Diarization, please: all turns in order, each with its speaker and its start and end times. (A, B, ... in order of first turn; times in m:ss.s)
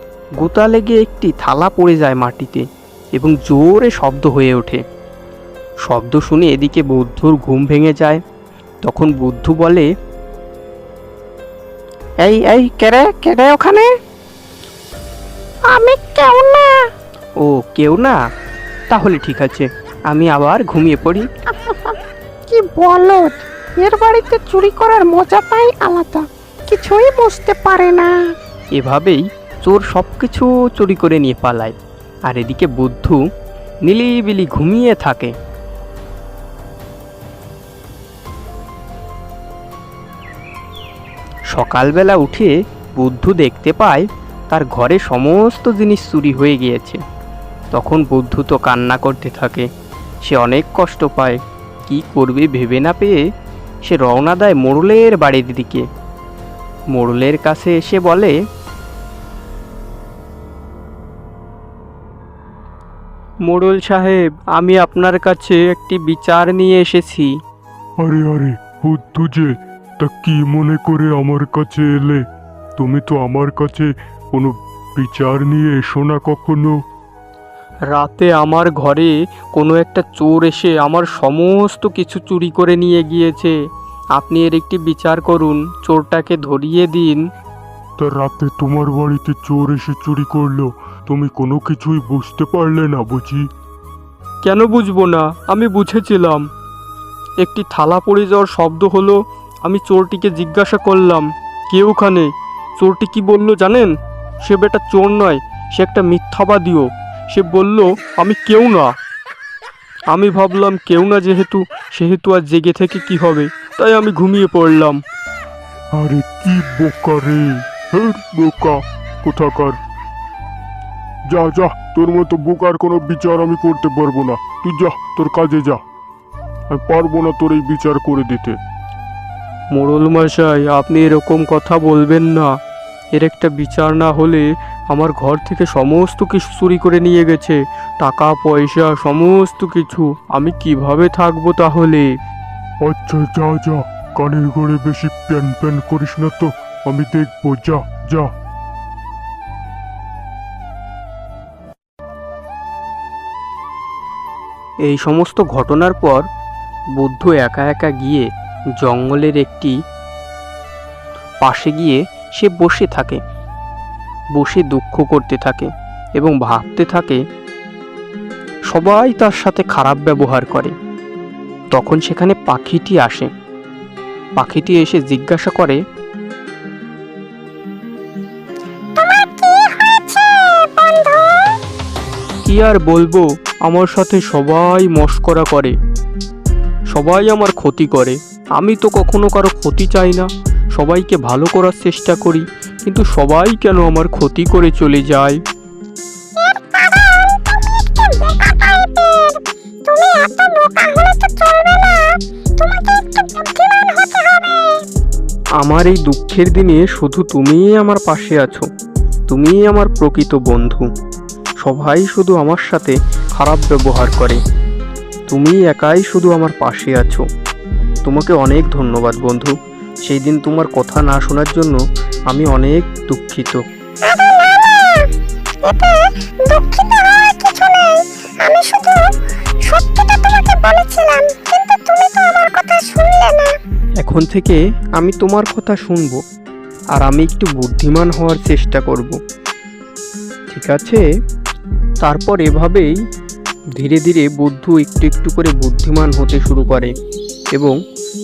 0:00.4-0:04.8 A
0:05.8-0:08.2 A
0:08.8-0:09.9 A
0:12.2-0:13.9 A
0:15.7-0:16.8 B
0:17.4-0:18.2 A
0:18.9-0:21.3 A
0:21.5-0:22.0 B
0:22.5-0:28.1 B
0:28.8-0:31.8 A
0:32.3-0:33.2 A
0:33.8-0:35.3 A
0:41.5-0:47.0 A
0:47.7-0:49.7 A
0:50.3-0:53.2 A
0:53.8-0:55.8 A
0:56.9-0:58.3 A
1:03.4-1:07.3 A
1:08.0-1:12.2 C
1:12.8-1:16.8 C
1:17.9-1:23.6 A
1:24.1-1:27.2 A
1:28.0-1:33.4 C
1:34.4-1:36.5 A
1:37.4-1:48.9 A
1:50.1-1:55.0 A
1:55.9-1:59.8 C
2:01.3-2:05.8 C
2:06.7-2:08.6 C
2:09.7-2:12.6 A
2:13.1-2:22.1 A
2:22.8-2:28.3 C
2:34.8-2:36.2 A
2:37.0-2:39.7 A
2:41.4-2:43.2 A
2:44.3-2:47.2 A
2:48.7-2:50.7 A
2:51.7-2:53.3 A
2:54.4-2:55.8 A
2:59.0-3:01.6 D
3:02.4-3:05.7 A
3:06.9-3:15.4 A
3:16.4-3:24.8 D
3:25.6-3:28.7 A
3:29.3-3:30.9 A
3:31.6-3:34.4 A
3:35.3-3:37.2 A
3:38.0-3:39.5 A
3:40.0-3:43.6 A
3:44.0-3:45.1 D
3:45.6-3:53.6 D
3:54.0-3:56.2 A
3:57.0-3:59.2 A
4:00.5-4:01.0 A
4:02.0-4:02.9 A
4:03.8-4:06.9 A